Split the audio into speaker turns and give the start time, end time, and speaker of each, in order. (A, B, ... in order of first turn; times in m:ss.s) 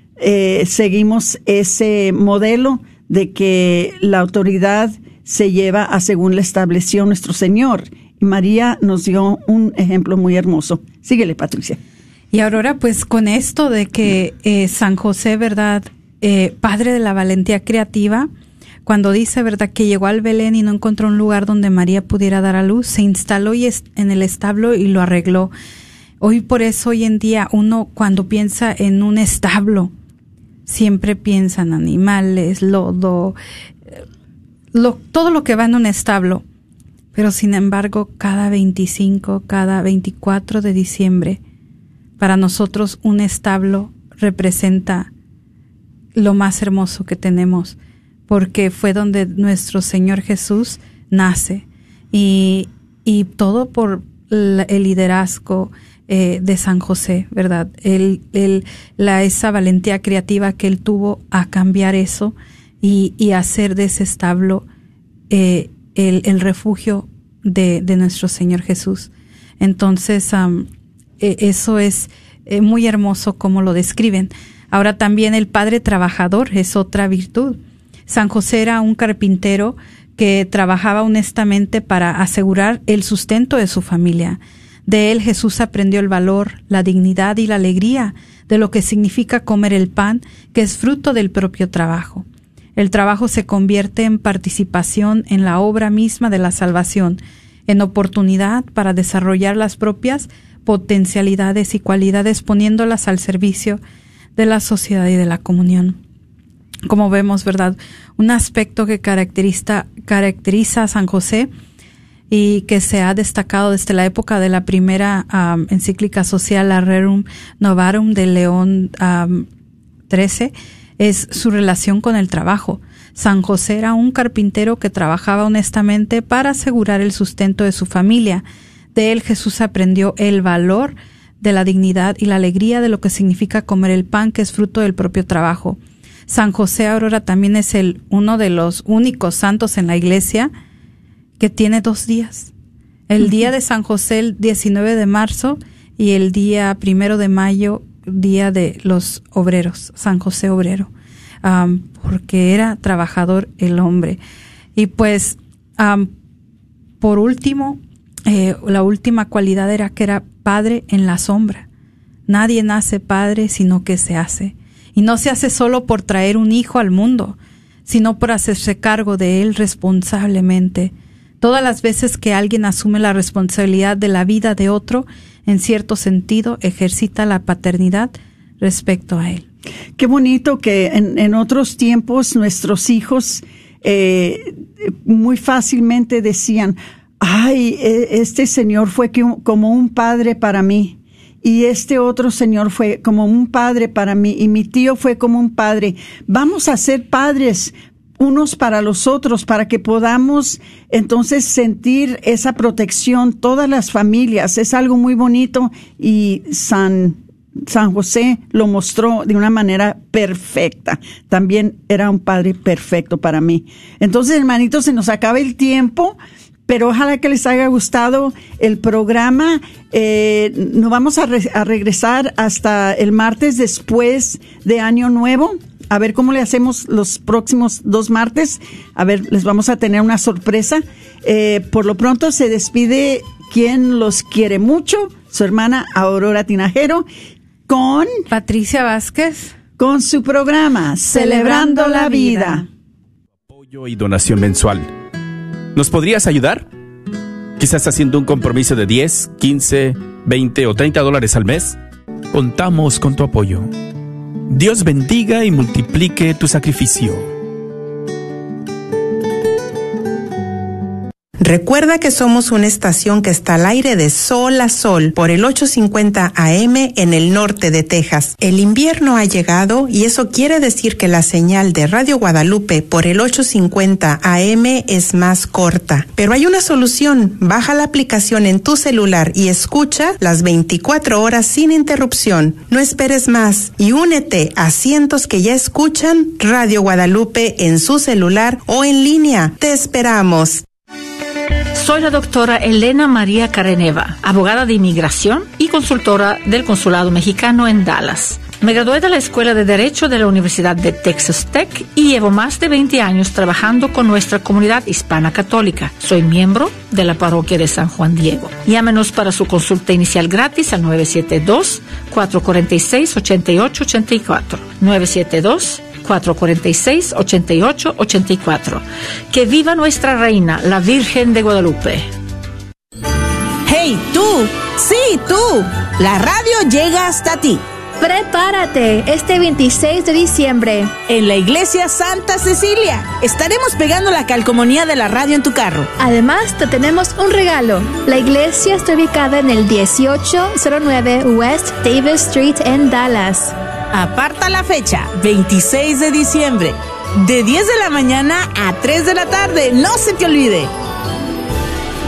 0:00.2-0:11.8 A
0:12.3-0:18.3 B
0:18.9-0:25.5 B
0:26.2-0:29.9 B
0:30.7-0:33.4 B
0:34.7-0:36.4 B
0:37.1-0:41.4 B
0:42.2-0:45.1 B
0:46.2-0:47.8 B
0:48.3-1:04.7 B
1:05.3-1:10.7 B
1:11.2-1:43.8 B
1:44.4-1:46.0 B
1:46.9-1:51.5 B
1:52.3-1:59.5 B
2:00.1-2:08.4 B
2:09.0-2:20.5 B
2:21.4-2:22.5 B
2:23.1-2:30.9 B
2:31.4-2:34.2 B
2:34.8-2:36.1 B
2:37.0-2:41.7 B
2:42.3-2:59.4 B
3:00.0-3:57.1 A
3:57.7-3:58.1 A
3:58.3-3:59.6 B
3:59.8-4:02.6 A
4:01.1-4:02.7 B
4:03.5-4:04.9 C
4:05.8-4:06.7 C
4:07.6-4:11.8 C
4:12.3-4:13.7 C
4:14.5-4:17.3 C
4:21.4-4:50.7 D
4:51.8-5:22.1 E
5:23.7-5:27.6 F
5:28.0-5:30.9 G
5:31.1-5:35.9 F
5:36.0-5:43.5 G
5:43.9-5:50.7 F